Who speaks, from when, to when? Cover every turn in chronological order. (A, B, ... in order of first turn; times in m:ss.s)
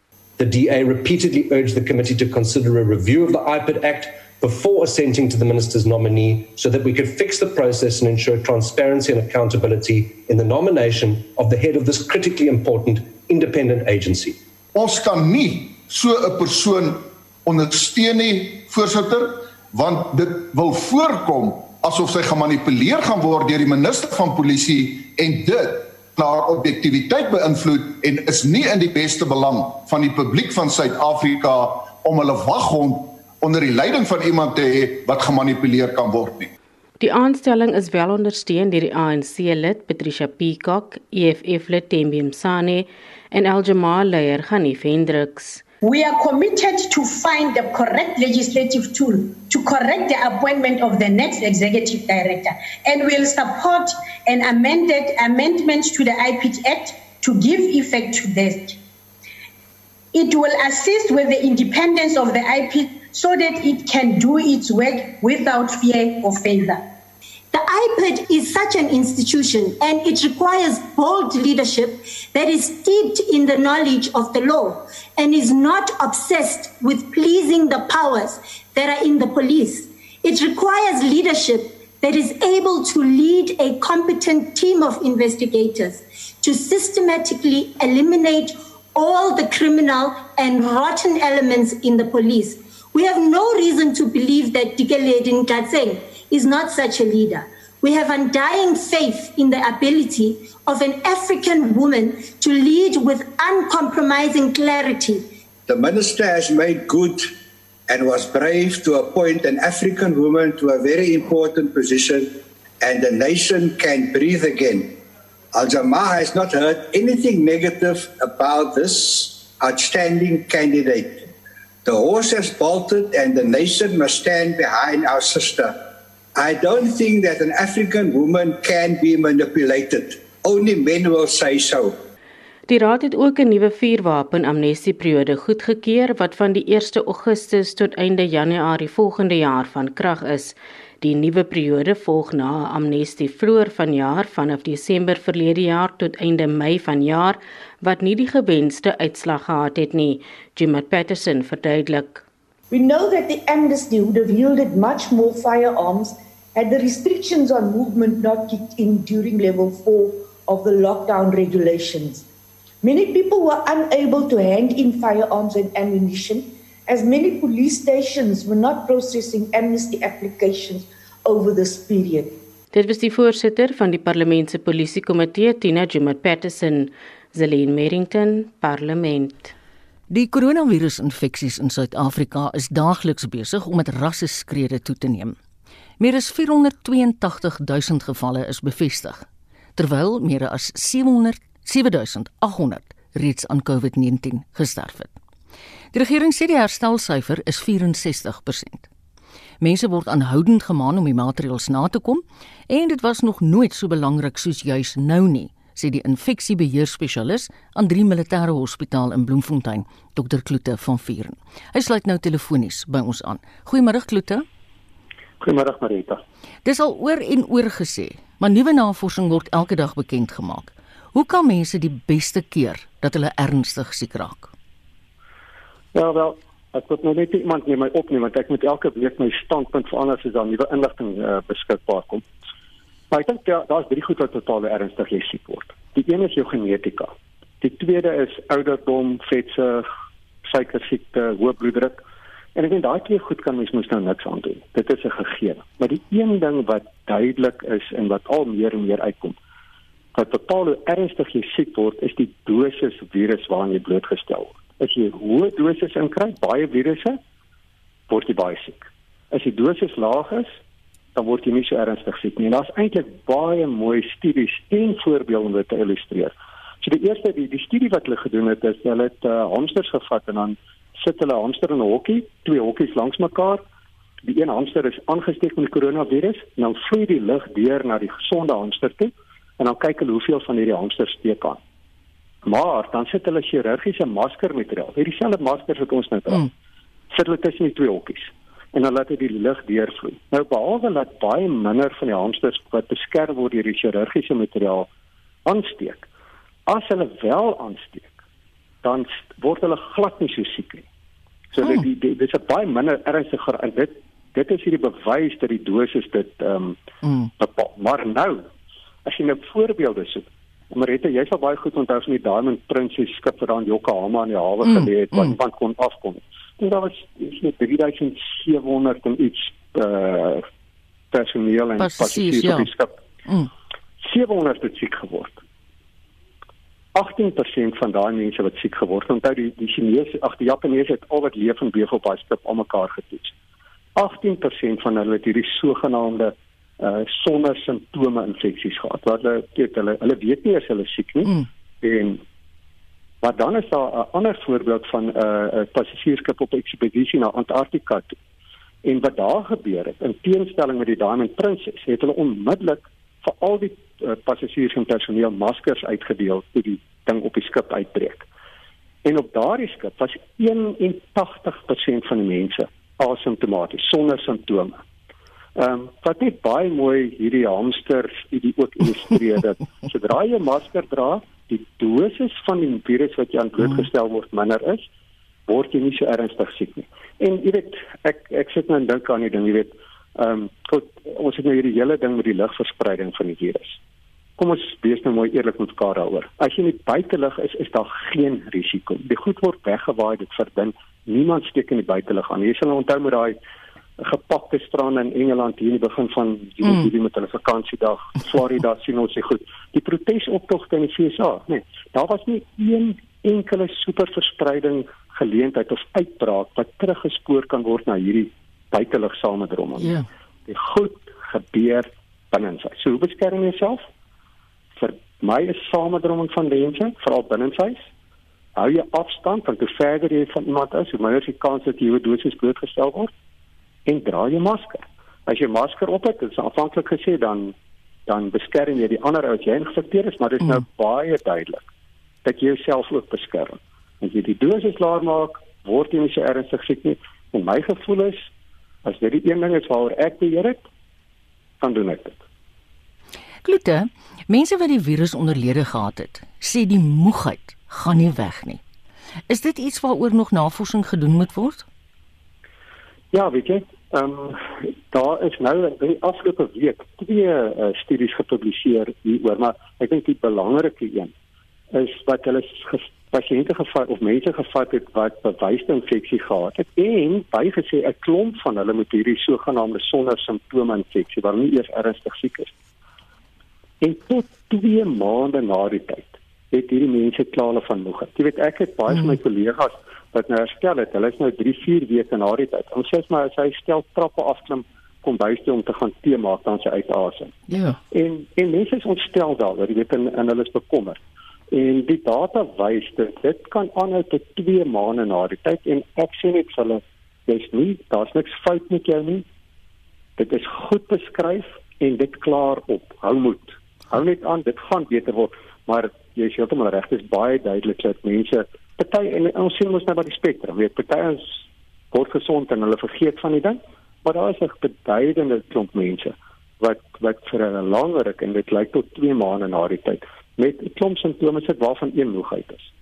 0:00.4-0:14.4 A
0:14.7-0:36.5 B
0:37.0-0:45.6 C
0:45.8-0:58.8 D
1:00.1-1:06.9 D
1:07.5-1:45.3 E
1:45.7-1:47.3 F
1:47.9-1:55.0 F
1:55.5-2:01.3 F
2:01.8-2:05.8 F
2:06.4-2:12.0 F
2:12.7-2:32.2 C
2:32.7-2:42.2 G
2:42.8-2:52.4 G
2:52.7-2:59.5 C
3:00.1-3:05.4 H
3:06.0-3:09.2 H
3:09.8-3:15.1 H
3:15.9-3:18.9 H
3:19.6-3:34.4 H
3:35.4-3:36.2 I
3:36.6-3:44.5 H
3:45.9-3:52.2 I
3:53.1-3:59.8 I
4:00.5-4:02.0 I
4:02.5-4:09.4 I
4:10.1-4:17.2 I
4:18.1-4:20.6 I
4:21.1-4:33.6 I
4:34.2-4:41.6 I
4:42.4-4:46.5 I
4:47.1-4:54.9 I
4:55.4-4:56.1 I
4:56.6-4:58.1 I
4:58.8-5:00.8 I
5:01.5-5:06.8 I
5:07.4-5:08.4 I
5:09.0-5:20.4 I
5:14.6-5:15.4 H
5:21.1-5:22.9 I
5:21.8-5:22.7 H
5:24.0-5:25.4 I
5:26.9-5:33.3 I
5:34.0-5:42.2 I
5:43.2-5:48.1 I
5:48.8-5:58.2 I
5:59.0-6:04.8 I
6:05.6-6:14.8 I
6:15.5-6:23.8 I
6:24.4-6:33.4 I
6:34.0-6:50.0 I
6:49.8-6:50.1 H
6:50.5-6:53.8 I
6:54.8-6:57.9 I
6:58.6-7:03.1 I
7:03.8-7:07.6 I
7:08.1-7:11.7 I
7:12.2-7:18.3 I
7:18.8-7:20.6 I
7:21.6-7:22.2 I
7:23.4-7:28.6 H
7:29.3-7:31.6 H
7:33.1-7:41.1 I
7:41.7-7:52.5 I
7:53.8-8:07.3 I
8:07.5-8:07.8 H
8:07.9-8:11.0 I
8:11.5-8:19.2 I
8:20.2-8:31.4 I
8:31.9-8:42.7 I